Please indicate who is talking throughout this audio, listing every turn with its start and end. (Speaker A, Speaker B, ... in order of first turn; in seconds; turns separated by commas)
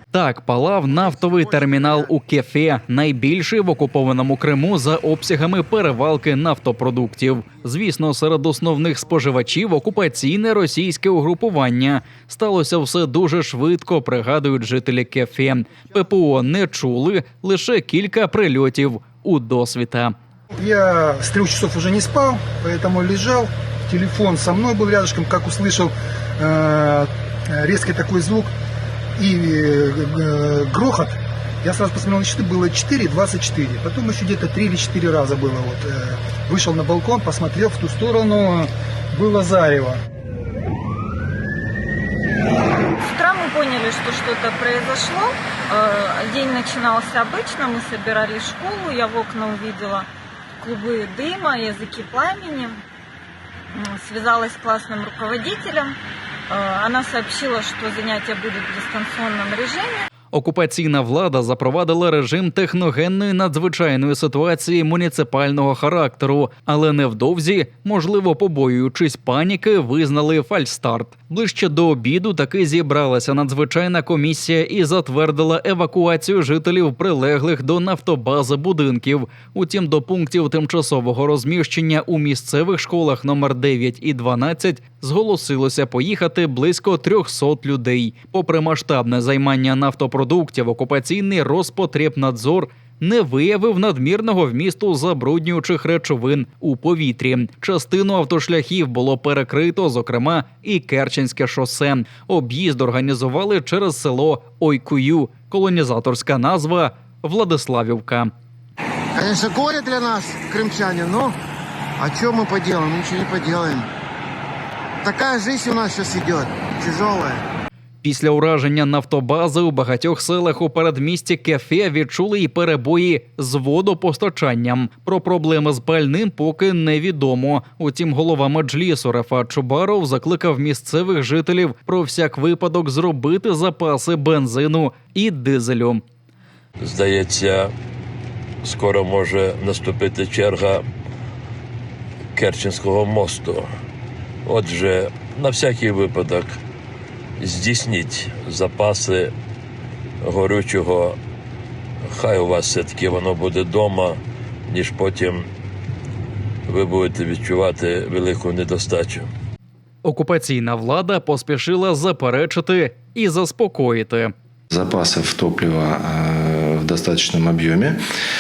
Speaker A: 0.1-20.1, Speaker B: 0.9-2.1, Speaker C: 20.5-28.5, Speaker C: 29.2-40.0, Speaker D: 43.0-50.1, Speaker D: 50.6-52.8, Speaker D: 53.8-56.0, Speaker D: 56.5-60.1, Speaker A: 60.3-108.3, Speaker B: 109.2-111.4, Speaker B: 112.0-113.9, Speaker B: 115.0-117.4, Speaker A: 118.0-136.0, Speaker E: 136.8-137.7, Speaker E: 138.7-140.8, Speaker E: 142.4-143.7, Speaker E: 144.5-146.6, Speaker E: 147.4-149.3, Speaker E: 150.2-151.2, Speaker E: 152.1-155.5, Speaker E: 156.7-159.3, Speaker A: 160.0-164.3, Speaker F: 164.7-168.0